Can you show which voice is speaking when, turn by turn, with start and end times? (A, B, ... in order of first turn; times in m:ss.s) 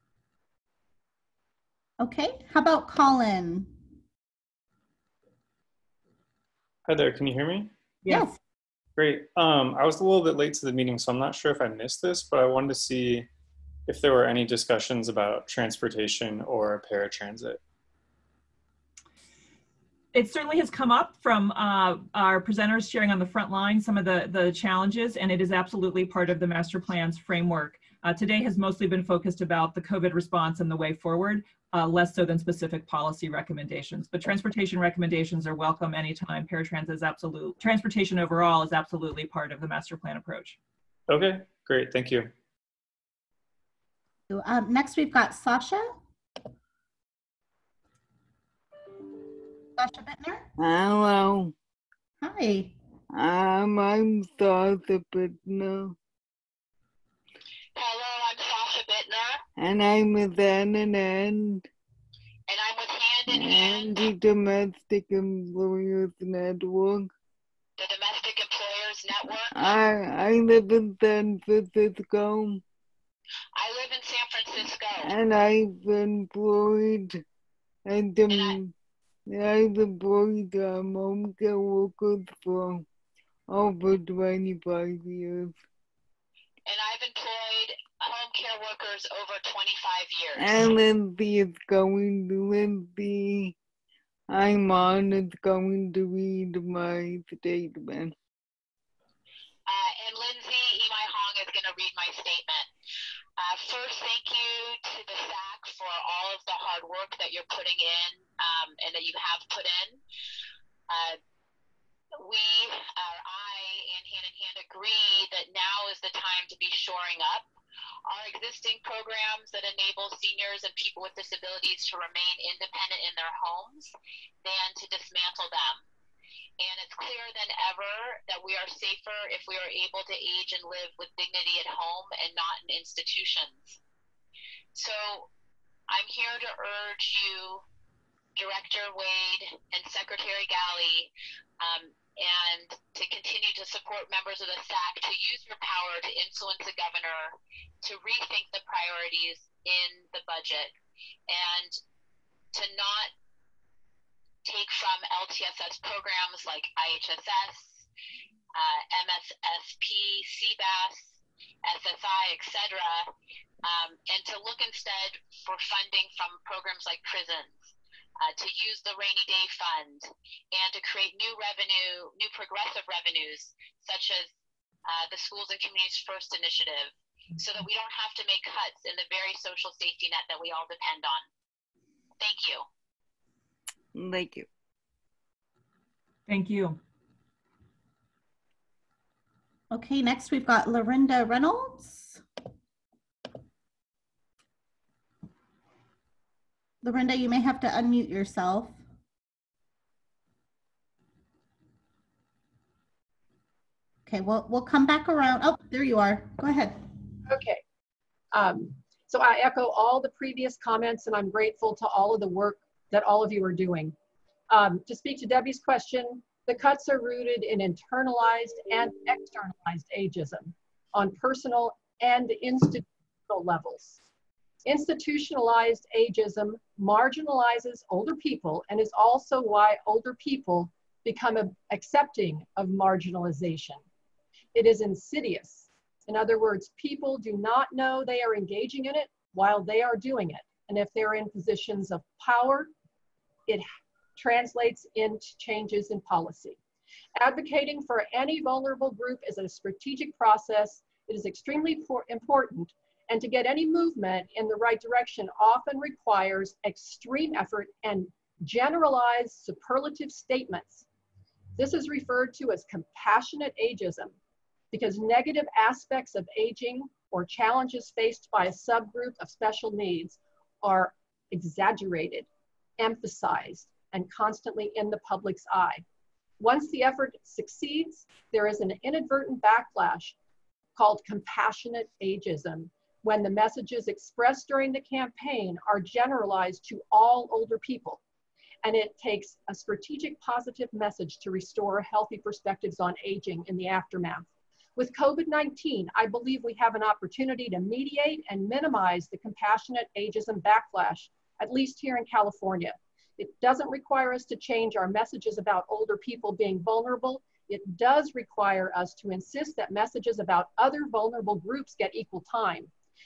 0:02.0-0:03.7 A
0:06.9-0:08.3 B
0:08.1-0:08.4 A
0:09.0-0:13.3 B
0:13.9-0:17.6 B
0:20.1-0:40.6 C
0:41.1-0:42.3 B
0:44.3-0:46.0 A
0:49.8-0:50.5 A
0:50.6-0:51.5 D
0:52.2-0:52.7 A
0:53.2-0:55.9 D
0:57.8-0:59.4 E
0:59.7-1:01.6 D
1:02.5-1:03.9 E
1:03.3-1:07.0 D
1:07.8-1:09.6 E
1:09.5-1:12.6 D
1:13.6-1:15.1 E
1:15.0-1:17.1 D
1:18.0-1:18.7 D
1:19.4-1:22.8 D
1:23.6-1:25.5 D
1:26.7-1:30.4 E
1:30.4-1:33.5 D
1:34.4-1:38.1 D
1:39.7-1:42.7 E
1:43.4-1:50.0 E
1:50.9-1:51.2 E
1:52.2-1:57.5 E
1:58.1-2:03.9 E
2:04.4-2:05.8 E
2:06.6-2:13.8 E
2:14.8-2:15.3 E
2:15.9-2:17.6 E
2:18.4-2:21.1 E
2:21.6-2:30.7 E
2:31.3-2:31.8 E
2:32.5-2:33.1 E
2:34.5-2:37.8 E
2:38.6-2:41.1 E
2:41.6-2:43.1 E
2:43.6-2:47.7 E
2:48.2-2:54.3 E
2:54.9-3:01.2 E
3:02.2-3:02.6 E
3:04.0-3:04.4 D
3:06.3-3:06.8 C
3:09.7-3:12.2 A
3:16.8-3:18.8 A
3:24.1-3:26.8 A
3:27.3-3:27.6 F
3:28.3-3:34.0 F
3:34.5-3:44.0 F
3:44.6-3:53.8 F
3:54.6-4:02.7 F
4:04.2-4:06.6 F
4:07.2-4:20.8 F
4:21.6-4:24.1 F
4:24.7-4:32.3 F
4:32.8-4:35.8 F
4:36.4-4:40.1 F
4:40.8-4:48.0 F
4:48.6-5:12.7 F